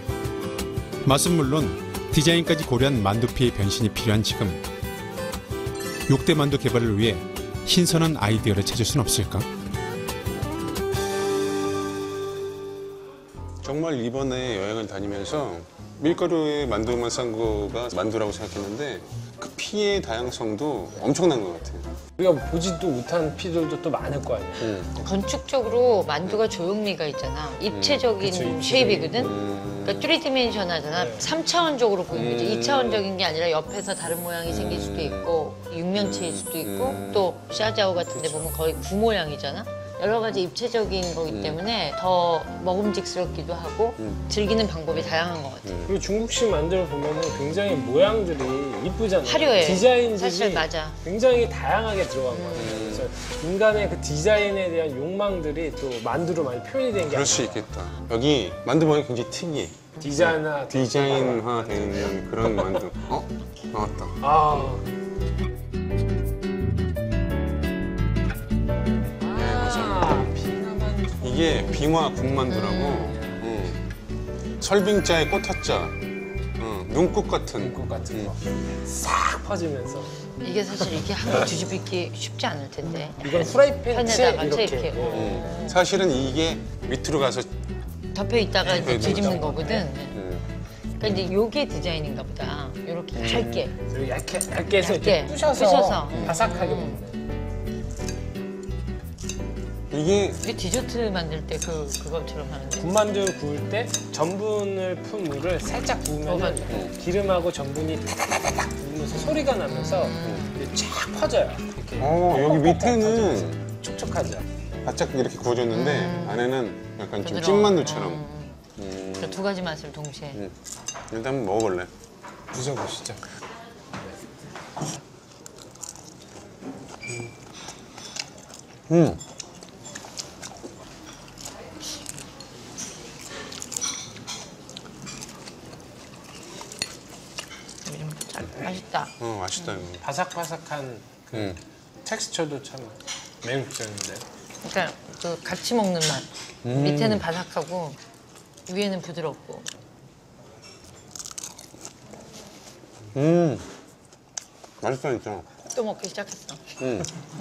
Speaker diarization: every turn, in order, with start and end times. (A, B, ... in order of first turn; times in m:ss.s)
0:01.0-0:04.6 A
0:06.1-0:09.5 A
0:13.6-0:21.9 B
0:22.2-0:24.8 C
0:24.6-0:24.9 B
0:24.9-0:45.9 D
0:27.7-0:28.1 B
0:28.2-0:29.3 C
0:29.1-0:30.1 B
0:30.9-0:31.3 C
0:32.1-0:33.0 B
0:34.5-0:35.3 B
0:35.9-0:37.3 B
0:38.1-0:38.5 C
0:41.3-0:41.6 B
0:45.6-0:45.9 B
0:45.8-0:57.6 C
0:49.2-0:51.0 D
0:52.3-0:52.7 D
0:52.6-0:53.1 B
0:57.0-1:04.2 B
1:00.0-1:02.1 C
1:04.2-1:04.8 C
1:09.2-1:12.0 C
1:09.3-1:10.2 B
1:11.2-1:13.8 B
1:12.5-1:13.1 D
1:12.9-1:13.4 C
1:14.6-1:16.0 B
1:16.6-1:18.3 B
1:17.6-1:20.1 C
1:20.4-1:25.8 D
1:23.2-1:25.5 C
1:25.1-1:27.5 B
1:28.1-1:30.2 D
1:28.6-1:29.9 C
1:28.7-1:29.5 B
1:30.1-1:30.4 B
1:31.0-1:33.7 D
1:33.2-1:33.7 B
1:33.8-1:37.2 C
1:34.8-1:37.0 D
1:39.9-1:40.4 B
1:40.4-1:42.9 D
1:42.8-1:54.4 C
1:46.2-1:46.8 D
1:46.7-1:46.9 B
1:49.2-1:50.6 D
1:50.2-1:50.5 B
1:52.0-1:53.6 B
1:54.8-1:58.2 B
1:55.7-1:56.5 D
1:57.2-1:58.6 D
1:58.8-1:59.4 B
1:59.2-2:00.4 D
2:01.1-2:01.9 B
2:02.5-2:03.2 C
2:08.9-2:09.2 B
2:17.8-2:19.1 D
2:19.2-2:20.0 B
2:20.0-2:24.2 C
2:21.3-2:21.6 B
2:24.6-2:28.0 D
2:26.6-2:27.2 B
2:28.7-2:29.7 D
2:33.1-2:33.6 B
2:34.8-2:35.5 B
2:35.6-2:36.6 D
2:36.8-2:37.1 B